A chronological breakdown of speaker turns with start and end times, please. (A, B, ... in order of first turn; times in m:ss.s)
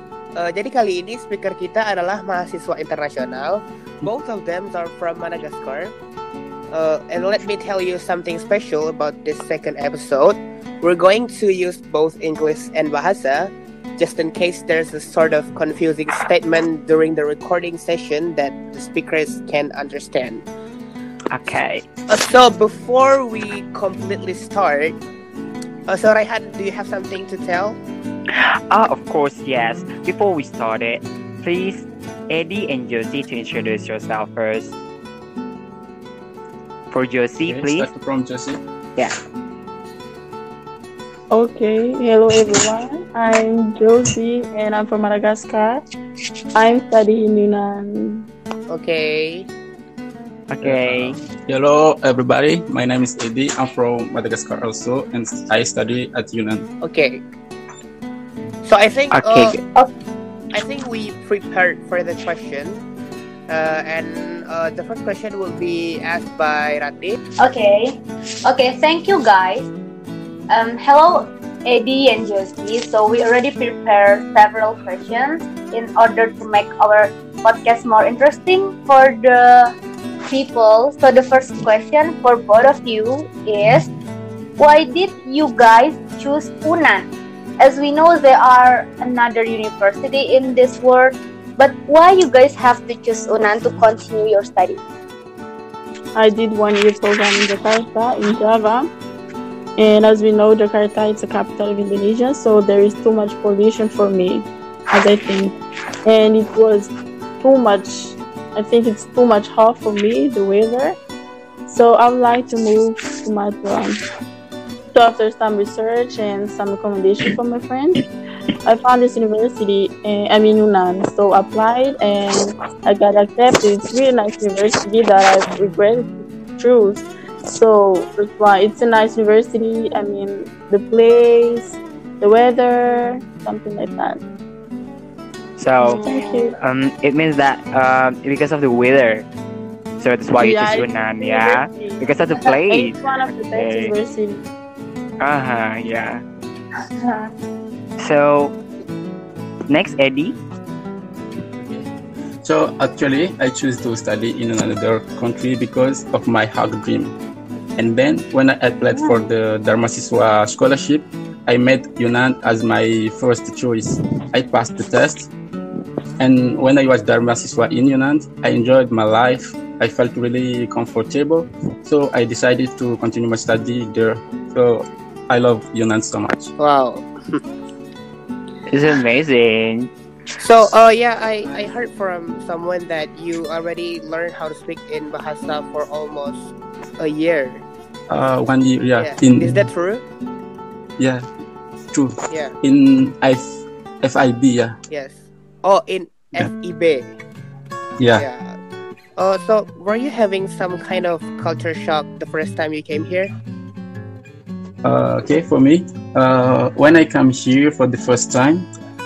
0:00.4-0:05.9 A
0:06.7-0:20.4 A
0:21.3-0:21.8 B
0:22.1-0:25.0 A
0:25.9-0:27.8 A
0:28.3-0:34.7 B
0:36.9-0:37.9 B
0:37.5-0:38.6 C
0:41.3-0:45.8 D
0:46.6-0:48.3 D
0:48.7-0:49.5 A
0:50.5-0:51.2 B
0:50.6-0:56.7 C
0:56.8-0:57.2 A
0:58.6-0:59.6 A
0:59.1-0:59.6 B
1:00.5-1:02.8 A
1:03.5-1:07.2 A
1:07.4-1:09.7 E
1:10.5-1:19.7 E
1:20.3-1:23.9 E
1:24.6-1:27.1 E
1:27.6-1:34.8 E
1:36.1-1:38.9 D
1:39.8-1:45.5 D
1:46.0-1:51.0 D
1:51.7-1:54.0 D
1:54.9-1:58.0 D
1:58.6-2:14.2 D
2:15.6-2:16.0 B
2:15.8-2:16.5 E
2:16.0-2:16.5 D
2:16.6-2:19.3 B
2:20.0-2:23.9 B
2:20.4-2:22.0 D
2:22.7-2:24.4 D
2:25.2-2:26.2 B
2:27.0-2:27.3 E
2:28.0-2:28.6 B
2:29.7-2:30.4 B
2:31.6-2:31.9 C
2:32.4-2:37.2 C
2:37.8-2:45.3 C
2:46.2-2:56.5 C
2:56.6-2:57.4 A
2:58.7-2:59.9 B
3:00.4-3:07.6 A
3:08.1-3:09.7 C
3:09.0-3:10.0 A
3:11.0-3:11.3 C
3:11.9-3:14.8 C
3:12.3-3:12.6 A
3:14.9-3:17.2 A
3:18.0-3:18.2 C
3:18.2-3:18.6 A
3:19.2-3:23.3 A
3:24.8-3:28.7 C